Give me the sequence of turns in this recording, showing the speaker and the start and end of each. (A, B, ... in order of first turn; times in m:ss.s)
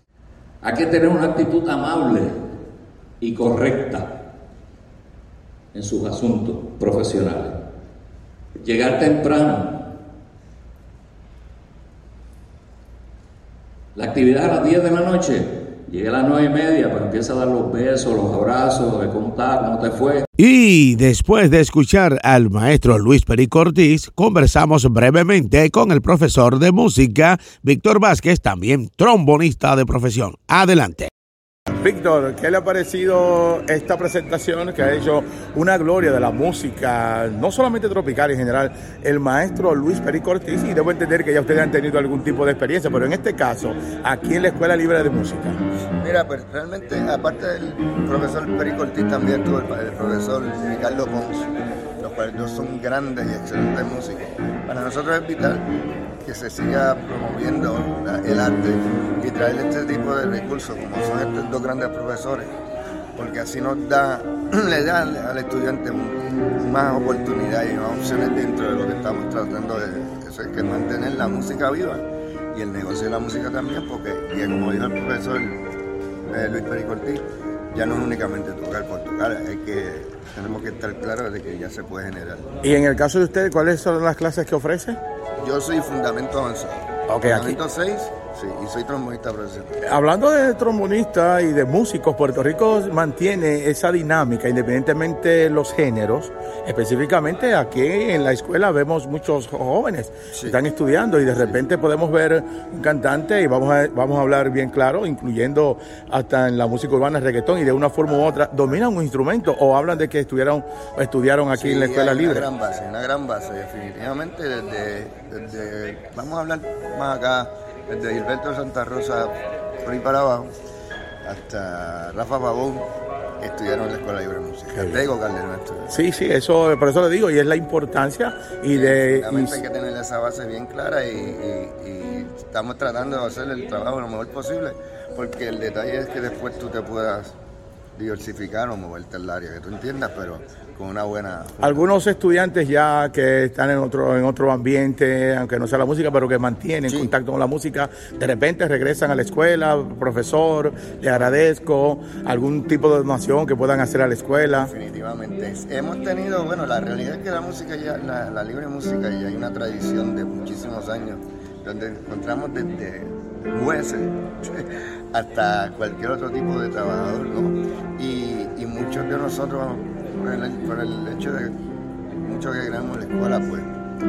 0:00.6-0:02.4 A
0:03.2-0:04.1 A
0:05.7-0:07.5 A
0:08.6-0:09.8 A
0:13.9-0:20.3 A
0:20.4-0:31.1 B
0:31.8-0:45.6 C
0:46.0-0:51.4 D
0:52.0-0:55.6 D
0:56.2-1:02.5 D
1:03.2-1:15.6 D
1:16.3-1:22.4 D
1:22.6-1:25.0 C
1:25.4-1:29.8 D
1:27.1-1:27.6 C
1:29.8-1:52.5 C
1:40.3-1:40.6 D
1:51.5-2:00.5 D
2:01.2-2:02.8 D
2:03.4-2:05.9 D
2:05.9-2:09.6 C
2:08.7-2:17.3 D
2:18.0-2:21.9 D
2:21.6-2:34.7 C
2:34.6-2:51.5 D
2:52.2-2:53.7 D